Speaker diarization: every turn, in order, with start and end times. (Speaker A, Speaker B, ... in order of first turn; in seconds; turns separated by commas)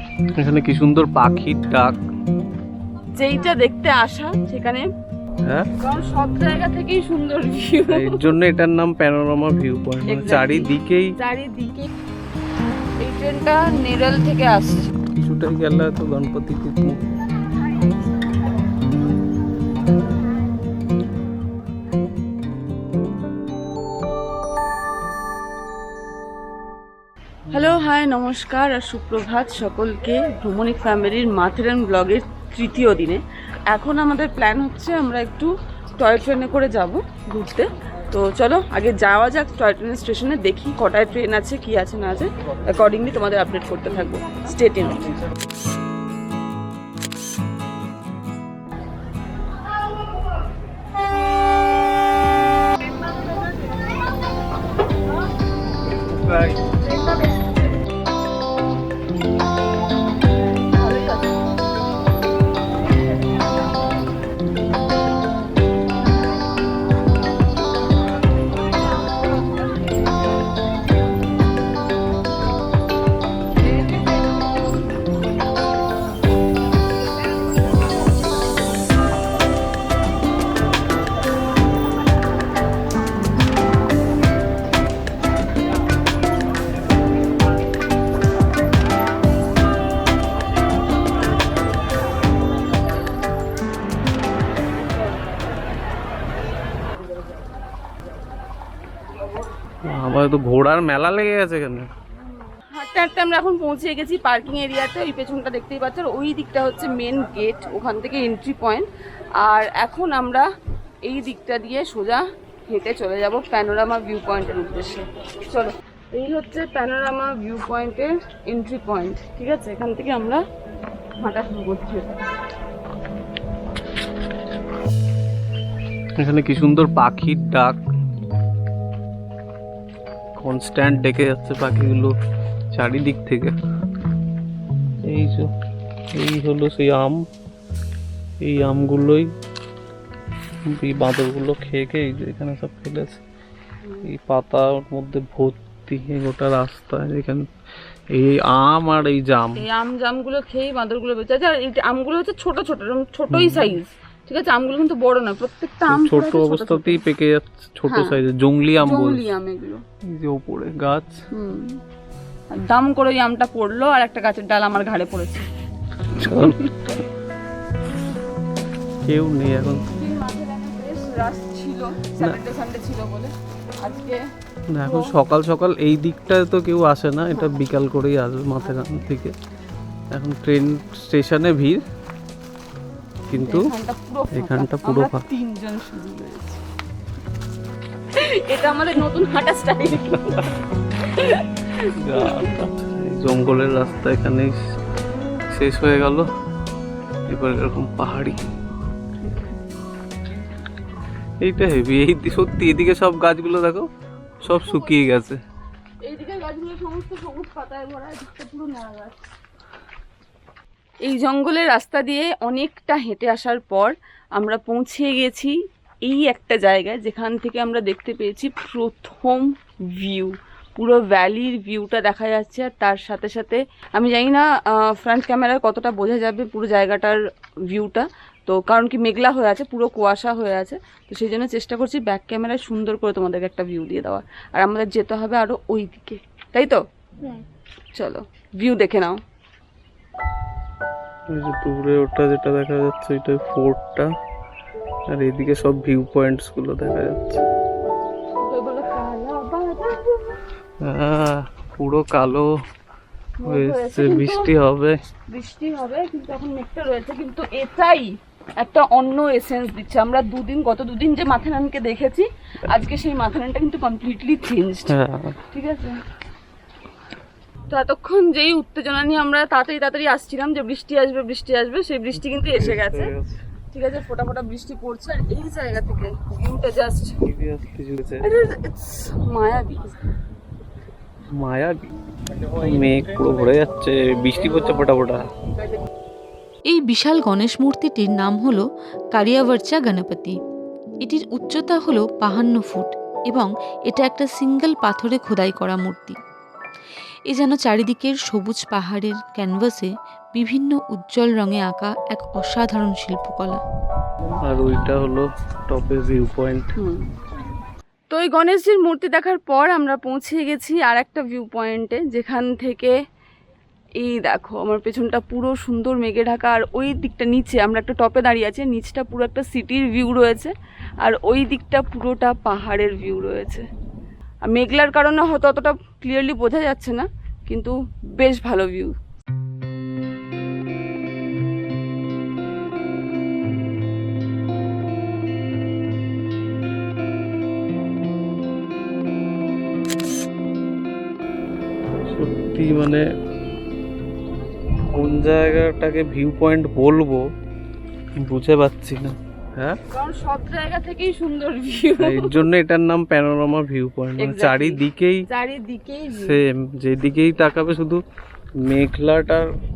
Speaker A: 0.4-2.0, Speaker B: 3.2-4.9, Speaker B: 5.8-8.3, Speaker A: 7.9-11.1, Speaker B: 10.1-11.9, Speaker B: 13.0-14.9, Speaker A: 15.1-17.0, Speaker A: 27.5-27.9, Speaker B: 27.5-45.1, Speaker A: 56.0-56.6, Speaker B: 56.9-57.6, Speaker B: 60.7-61.4, Speaker A: 99.8-101.9, Speaker B: 102.5-108.8, Speaker B: 109.4-110.5, Speaker B: 111.0-120.4, Speaker B: 121.2-122.1, Speaker A: 126.2-127.8, Speaker A: 130.4-132.2, Speaker A: 132.7-133.5, Speaker A: 135.0-135.5, Speaker A: 136.1-137.2, Speaker A: 138.4-139.3, Speaker A: 140.7-143.2, Speaker B: 143.8-144.1, Speaker A: 144.1-147.4, Speaker A: 148.1-149.6, Speaker B: 149.6-157.0, Speaker A: 153.3-153.8, Speaker A: 155.9-159.2, Speaker B: 157.9-158.2, Speaker B: 158.8-159.8, Speaker A: 160.1-161.1, Speaker B: 161.3-161.8, Speaker B: 162.5-165.4, Speaker A: 166.2-166.7, Speaker B: 166.3-166.6, Speaker A: 169.0-169.9, Speaker B: 169.9-173.3, Speaker B: 173.8-174.2, Speaker A: 174.7-179.3, Speaker B: 174.8-175.1, Speaker A: 180.1-181.8, Speaker A: 183.3-183.7, Speaker B: 183.3-186.6, Speaker A: 184.3-185.2, Speaker B: 188.1-192.6, Speaker A: 190.1-190.4, Speaker A: 192.0-194.6, Speaker A: 195.5-196.3, Speaker A: 197.3-198.4, Speaker A: 201.4-203.9, Speaker A: 204.4-205.4, Speaker B: 204.6-205.1, Speaker B: 206.0-209.3, Speaker B: 211.0-215.5, Speaker B: 216.0-227.2, Speaker B: 227.7-236.8, Speaker B: 237.9-239.2, Speaker A: 241.3-244.1, Speaker A: 245.1-247.4, Speaker B: 248.4-250.4, Speaker A: 250.8-252.5, Speaker B: 253.4-254.5, Speaker A: 253.5-254.9, Speaker B: 255.3-264.9, Speaker A: 264.9-265.4, Speaker B: 265.5-266.0, Speaker B: 267.7-273.1, Speaker A: 272.5-273.4, Speaker B: 273.7-277.2, Speaker A: 277.2-278.2, Speaker B: 278.2-280.0, Speaker A: 281.3-281.8, Speaker A: 282.4-285.2, Speaker C: 286.7-290.4, Speaker C: 291.0-296.2, Speaker C: 297.3-303.6, Speaker A: 304.4-306.7, Speaker B: 306.8-307.1, Speaker B: 308.1-312.9, Speaker B: 314.0-323.6, Speaker B: 324.4-328.9, Speaker A: 341.9-343.0, Speaker A: 344.9-347.2, Speaker A: 348.2-349.8, Speaker B: 349.9-352.4, Speaker A: 352.0-355.2, Speaker B: 354.2-356.4, Speaker A: 356.1-358.0, Speaker A: 358.6-359.5